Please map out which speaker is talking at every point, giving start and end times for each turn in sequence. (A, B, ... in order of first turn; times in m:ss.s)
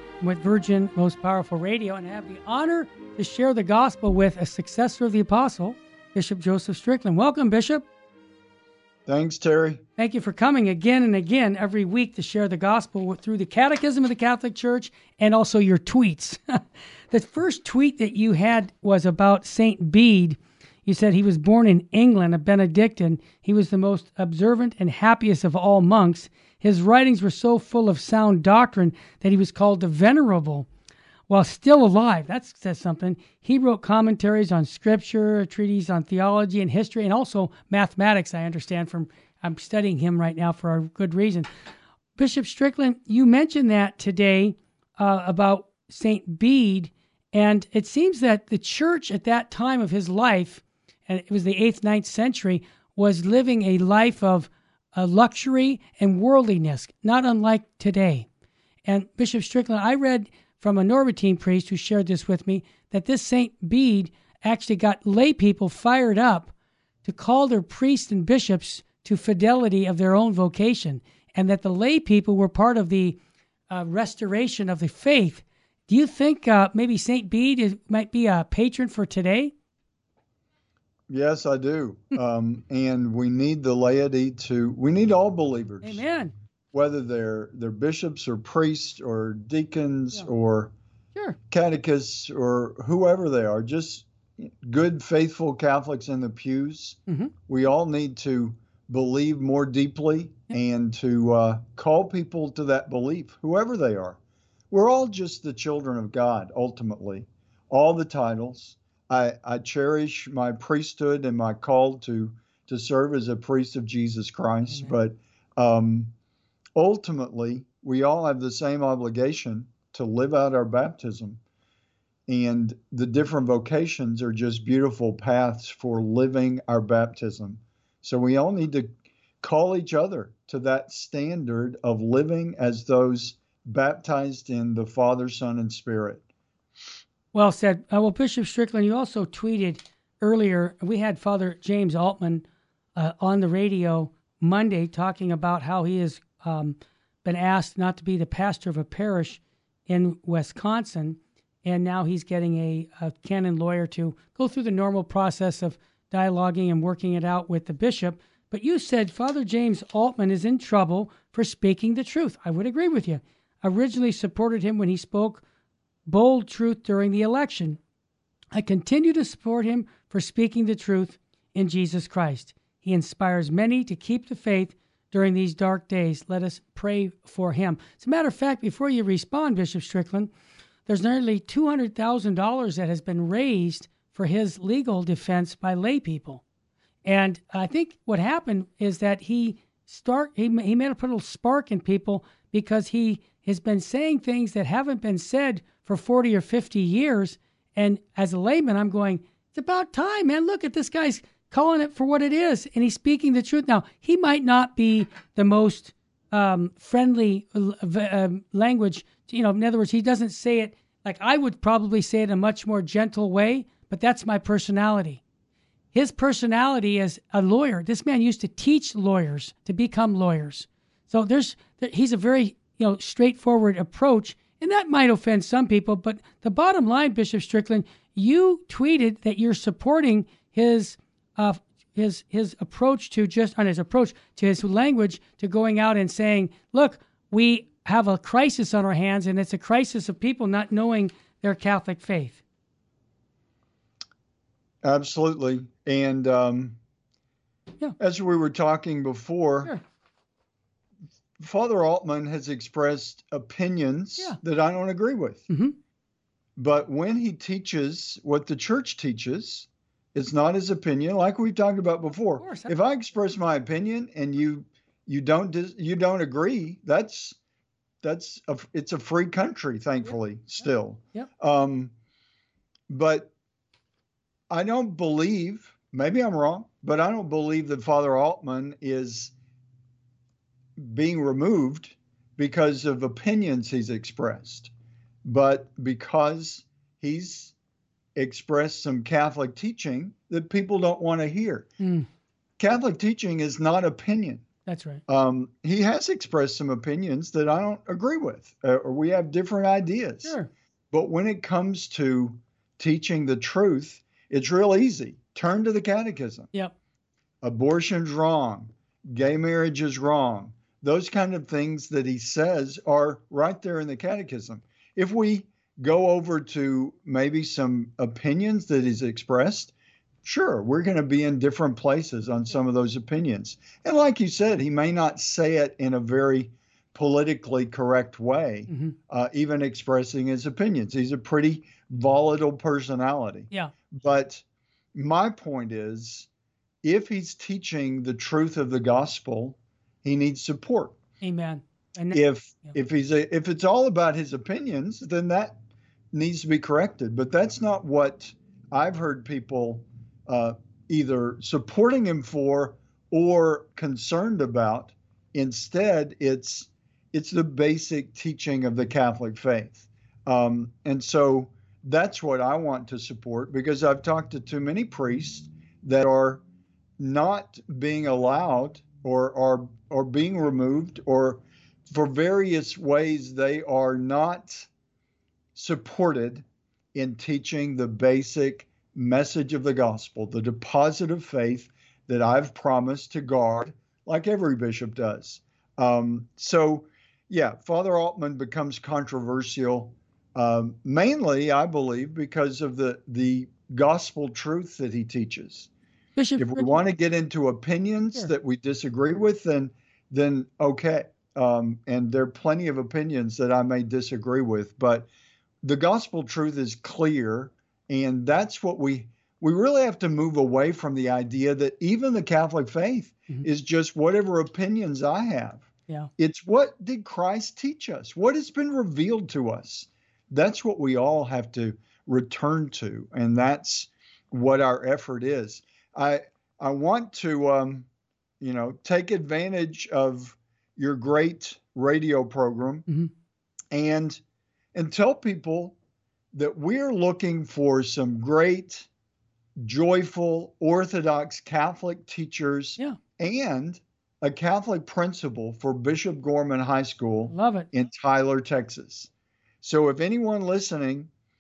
0:00.2-0:07.9 A
0:09.1-0:09.8 B
0:10.0-0:30.7 A
0:31.3-0:41.5 A
0:42.2-0:58.3 A
0:58.9-1:06.5 A
1:07.0-1:13.2 A
1:13.7-1:19.5 A
1:21.1-1:26.0 B
1:25.8-1:26.3 A
1:26.7-1:30.7 B
1:31.5-1:44.2 B
1:44.7-1:56.1 B
1:56.8-2:01.4 B
2:02.3-2:08.9 B
2:09.4-2:16.2 B
2:17.3-2:45.4 A
2:46.1-2:47.8 A
2:48.5-3:00.3 A
3:00.9-3:06.4 A
3:07.0-3:35.2 A
3:35.9-4:02.4 A
4:04.8-4:06.8 B
4:08.0-4:09.7 B
4:11.4-4:15.5 B
4:15.5-4:15.8 A
4:16.6-4:27.4 B
4:22.4-4:22.7 A
4:28.0-4:31.9 B
4:32.9-4:33.3 B
4:34.5-4:39.3 B
4:40.8-4:44.7 B
4:45.2-4:47.5 B
4:48.2-4:51.7 B
4:51.8-4:52.1 A
4:52.6-4:54.4 B
4:54.7-4:55.0 A
4:55.1-5:00.4 B
5:00.9-5:06.5 B
5:07.4-5:34.4 B
5:28.7-5:29.0 A
5:34.9-5:36.3 B
5:36.8-5:41.0 B
5:41.2-5:42.2 A
5:42.1-5:45.6 B
5:46.1-6:06.4 B
6:07.0-6:14.7 B
6:15.6-6:35.7 B
6:36.2-6:36.7 A
6:36.4-6:45.1 B
6:45.6-6:55.7 B
6:56.2-7:07.9 B
7:08.4-7:12.8 B
7:13.7-7:14.2 B
7:14.7-7:15.8 B
7:16.3-7:18.9 B
7:19.6-7:29.1 B
7:27.3-7:27.7 A
7:29.6-7:31.1 B